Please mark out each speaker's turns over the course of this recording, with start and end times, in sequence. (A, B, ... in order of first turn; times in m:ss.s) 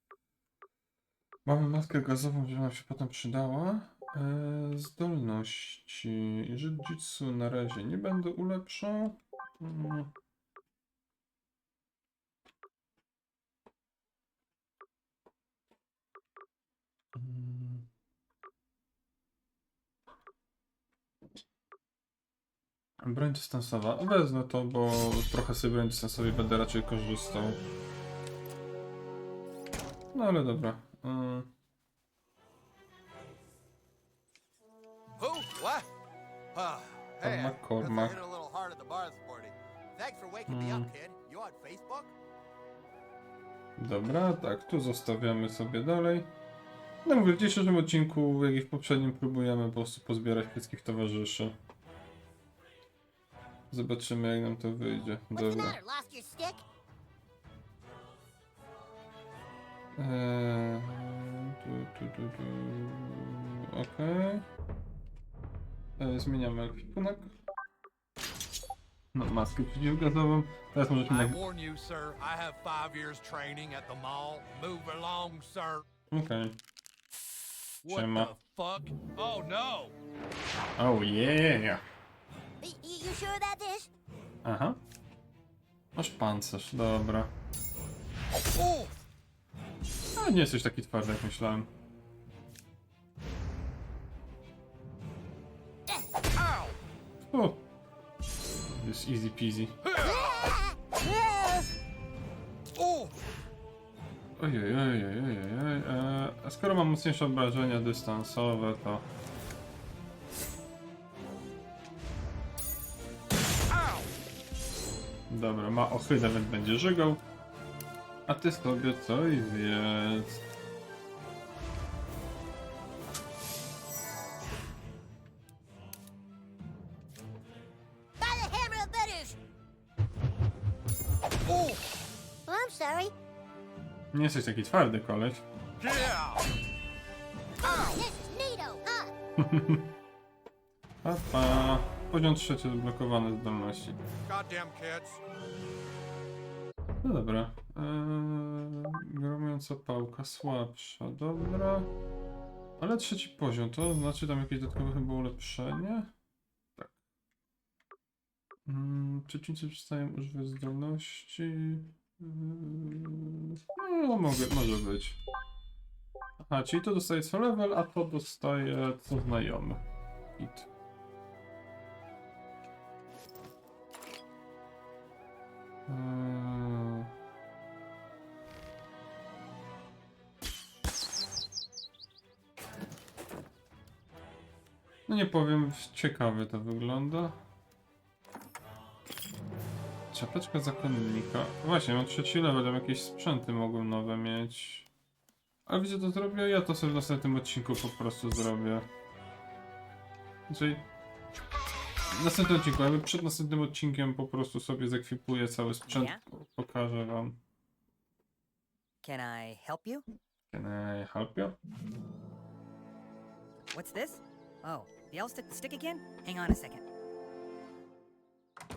0:01.5-0:10.1 A
0:17.2-0:17.9 A
0:23.0-0:27.6 A
0:30.1-0:31.5 A
0:35.2-0:35.9 B
0:36.5-0:42.1 B
0:37.2-0:38.2 A
0:40.5-0:40.9 A
0:43.8-0:46.3 A
0:47.0-0:51.6 A
0:53.7-0:55.8 A
0:55.4-0:56.6 C
1:00.0-1:04.4 A
1:06.0-1:07.3 A
1:09.1-1:11.4 A
1:11.1-1:15.8 B
1:16.1-1:16.6 A
1:17.8-1:18.3 A
1:17.8-1:20.0 B
1:20.8-1:21.8 A
1:22.6-1:23.9 C
1:24.4-1:24.8 A
1:26.0-1:27.3 A
1:28.6-1:28.9 B
1:30.2-1:31.7 A
1:36.4-1:36.8 B
1:37.3-1:37.6 A
1:38.7-1:39.8 A
1:39.8-1:40.5 B
1:40.0-1:41.6 C
1:42.8-1:43.1 B
1:44.4-1:49.1 A
1:53.7-1:54.1 B
1:55.3-1:57.2 A
1:58.3-2:00.4 A
2:08.2-2:09.4 C
2:11.5-2:11.8 B
2:12.5-2:13.1 C
2:14.1-2:15.4 A
2:15.8-2:16.4 B
2:17.6-2:19.1 C
2:19.4-2:19.9 A
2:21.0-2:24.0 A
2:24.3-2:25.2 B
2:27.0-2:31.9 A
2:32.8-2:36.1 A
2:38.7-2:45.2 A
2:46.4-2:49.8 A
2:50.4-2:50.7 A
2:55.9-2:57.1 A
3:05.1-3:07.4 A
3:10.1-3:14.9 A
3:15.7-3:18.9 A
3:20.5-3:20.9 A
3:22.1-3:27.4 A
3:25.9-3:26.2 D
3:29.0-3:30.0 D
3:30.5-3:31.6 A
3:33.7-3:36.8 D